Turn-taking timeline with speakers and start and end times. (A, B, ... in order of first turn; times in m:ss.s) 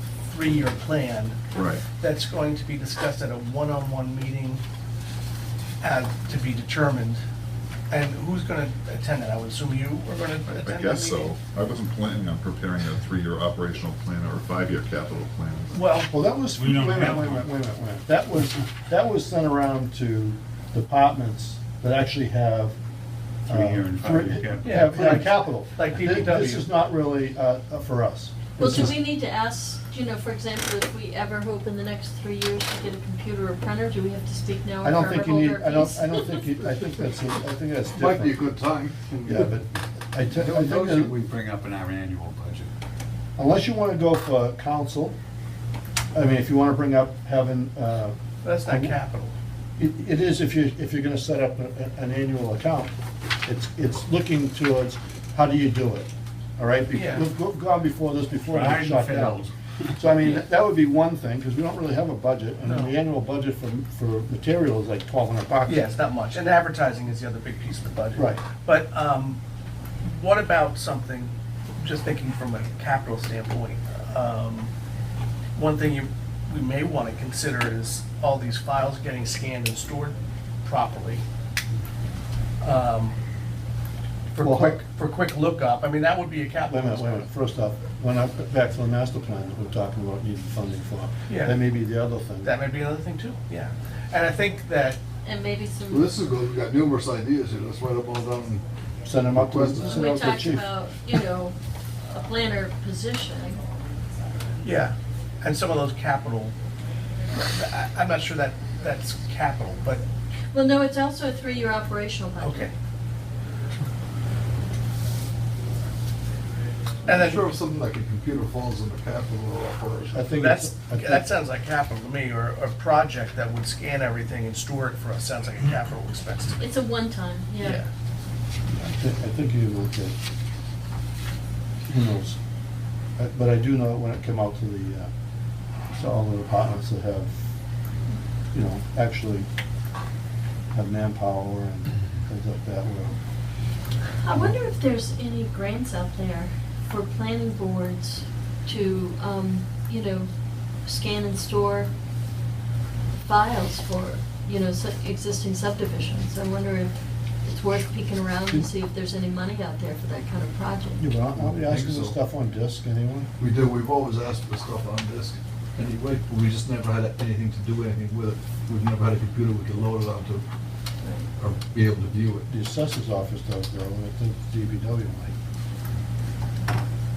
0:00.2-0:01.4 A
0:01.5-0:01.8 B
0:01.9-0:04.6 A
0:05.8-0:07.2 A
0:07.9-0:11.4 A
0:10.5-0:15.8 B
0:15.7-0:16.1 A
0:16.1-0:22.8 C
0:16.5-0:17.5 D
0:23.5-0:25.2 D
0:23.5-0:29.0 C
0:24.6-0:26.7 A
0:28.6-0:36.8 E
0:34.8-0:38.4 C
0:37.9-0:39.6 F
0:39.2-0:41.1 C
0:40.4-0:41.0 F
0:40.5-0:42.7 D
0:43.4-0:45.2 C
0:46.1-0:49.0 C
0:48.4-0:49.3 A
0:49.8-0:52.9 C
0:53.4-0:59.4 C
0:56.9-0:57.3 A
0:58.5-1:00.1 D
1:00.0-1:05.9 C
1:02.6-1:02.9 A
1:05.6-1:09.4 A
1:08.1-1:08.4 C
1:10.0-1:14.7 A
1:15.5-1:21.2 A
1:22.6-1:23.2 A
1:24.3-1:27.3 A
1:24.4-1:24.8 C
1:26.7-1:32.5 C
1:31.3-1:31.6 A
1:32.4-1:35.0 A
1:35.2-1:36.1 E
1:35.9-1:38.6 F
1:39.0-1:40.7 C
1:39.3-1:40.1 F
1:39.9-1:41.6 E
1:42.1-1:43.6 E
1:44.6-1:46.5 A
1:47.4-1:50.0 A
1:50.5-1:52.7 E
1:52.4-1:52.7 A
1:57.0-1:57.4 A
1:57.0-2:00.3 F
2:00.1-2:01.2 C
2:00.4-2:06.6 A
2:06.6-2:07.8 E
2:07.6-2:07.9 A
2:08.8-2:10.2 C
2:11.9-2:12.4 C
2:13.2-2:15.1 C
2:16.0-2:17.3 C
2:18.5-2:19.5 C
2:20.7-2:23.2 C
2:24.2-2:31.9 E
2:33.2-2:41.1 E
2:41.0-2:43.3 C
2:41.4-2:42.2 F
2:43.4-2:50.4 F
2:51.4-2:52.4 F
2:52.5-2:55.3 C